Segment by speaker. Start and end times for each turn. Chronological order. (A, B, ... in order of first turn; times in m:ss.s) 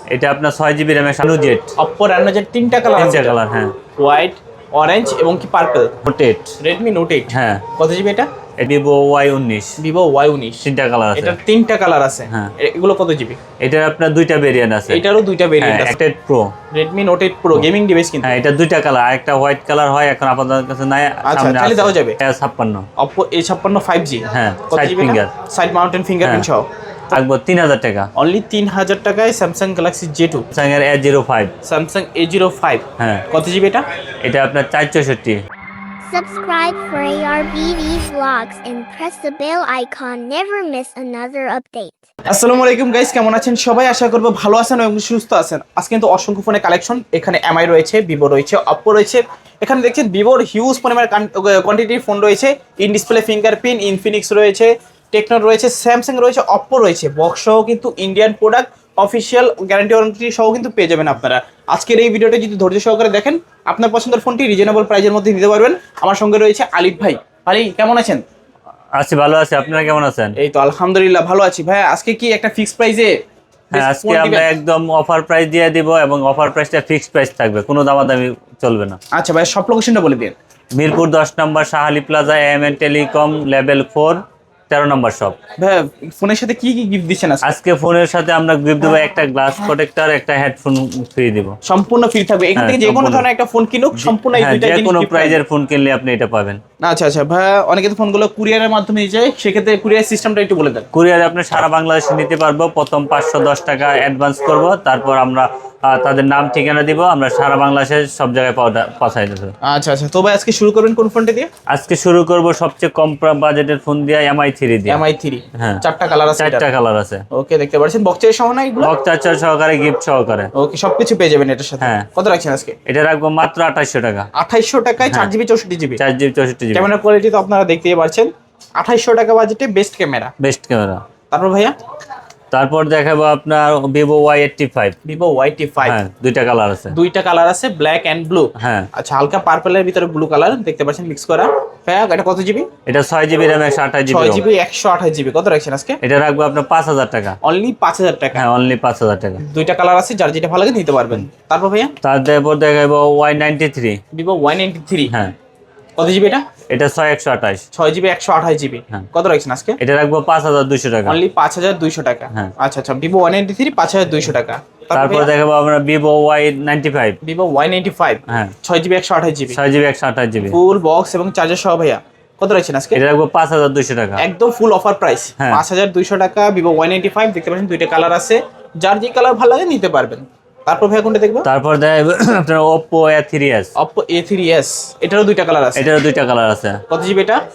0:00.1-0:01.7 A
0:01.8-0:03.4 B
0:02.9-0:03.8 A
0:04.0-0:05.9 B
0:06.0-0:06.5 A
0:06.6-0:08.3 B
0:07.3-0:07.6 A
0:08.6-0:09.8 A
0:09.8-0:10.6 B
0:10.6-0:11.4 A
0:11.2-0:13.4 B
0:13.6-0:15.0 A
0:14.9-0:16.0 B
0:15.6-0:16.5 A
0:16.7-0:18.3 B
0:18.2-0:22.8 A
0:21.2-0:22.2 B
0:23.0-0:26.7 B
0:24.3-0:25.3 A
0:26.2-0:26.5 A
0:27.1-0:28.1 A
0:28.2-0:30.4 B
0:30.5-0:31.5 A
0:31.6-0:33.8 B
0:33.0-0:33.2 A
0:34.2-0:35.4 A
0:36.1-0:42.0 C
0:42.3-1:08.2 B
1:09.0-1:10.4 A
1:10.4-1:13.1 B
1:13.7-1:14.5 B
1:13.7-1:19.0 A
1:19.1-1:20.3 B
1:20.7-1:25.4 A
1:25.6-1:27.5 B
1:27.4-1:31.6 A
1:31.6-1:35.4 B
1:32.6-1:33.2 A
1:33.9-1:36.6 A
1:36.8-1:40.9 B
1:40.9-1:49.5 A
1:49.6-1:51.5 B
1:51.7-1:55.0 A
1:54.9-1:56.6 B
1:55.6-1:55.8 A
1:56.4-1:57.2 A
1:57.3-1:58.9 B
1:58.8-2:00.5 A
2:00.5-2:02.8 B
2:01.8-2:02.1 A
2:02.9-2:04.3 A
2:04.4-2:06.0 B
2:05.0-2:05.3 A
2:06.0-2:06.9 A
2:06.7-2:10.3 B
2:10.4-2:11.0 A
2:11.3-2:11.8 B
2:12.5-2:15.0 A
2:15.0-2:16.0 B
2:15.8-2:16.9 A
2:16.9-2:22.7 B
2:18.6-2:18.9 A
2:22.8-2:24.4 A
2:24.1-2:26.0 B
2:26.0-2:27.4 A
2:27.4-2:28.4 B
2:28.3-2:29.4 A
2:29.4-2:31.9 B
2:32.0-2:34.0 A
2:34.1-2:35.1 B
2:35.1-2:35.3 A
2:36.0-2:36.4 B
2:36.7-2:37.6 A
2:37.7-2:39.8 B
2:39.8-2:41.2 A
2:41.0-2:45.3 B
2:44.9-2:47.2 A
2:47.2-2:49.6 B
2:48.3-2:48.5 A
2:49.5-2:50.6 A
2:50.4-2:53.0 B
2:52.9-2:54.2 A
2:54.2-3:01.5 B
3:01.4-3:03.7 A
3:03.7-3:05.9 B
3:05.7-3:06.8 A
3:06.9-3:07.4 B